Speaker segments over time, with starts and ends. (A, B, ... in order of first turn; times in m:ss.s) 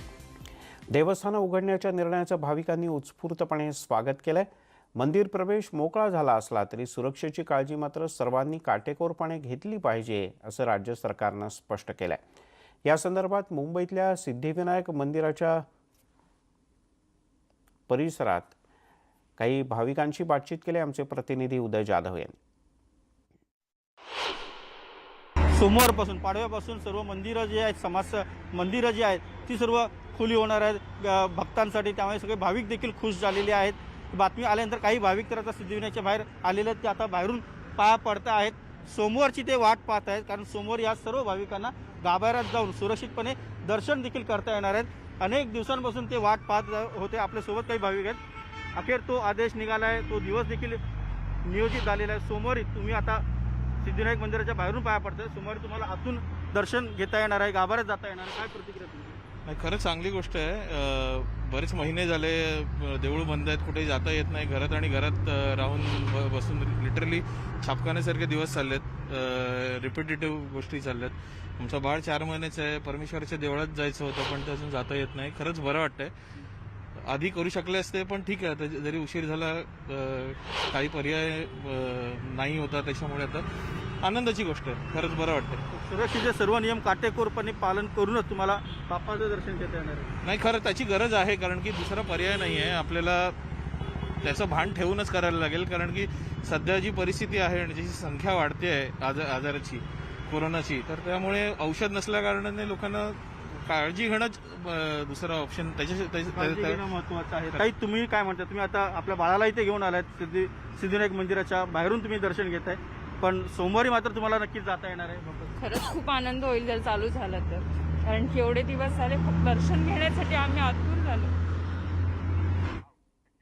0:00.9-0:12.2 A
0:12.8-0:15.7 A
0:17.9-0:18.5 A
0:19.4-0:22.4 A
0:25.6-0:48.2 B
0:48.8-0:50.8 B
0:51.4-0:53.2 B
0:53.8-0:59.2 B
0:59.5-1:16.1 C
1:17.0-1:23.4 C
1:24.0-1:25.6 C
1:25.7-1:30.1 B
1:30.2-1:33.4 C
1:34.2-1:46.8 C
1:46.3-1:55.5 B
1:55.6-2:01.3 D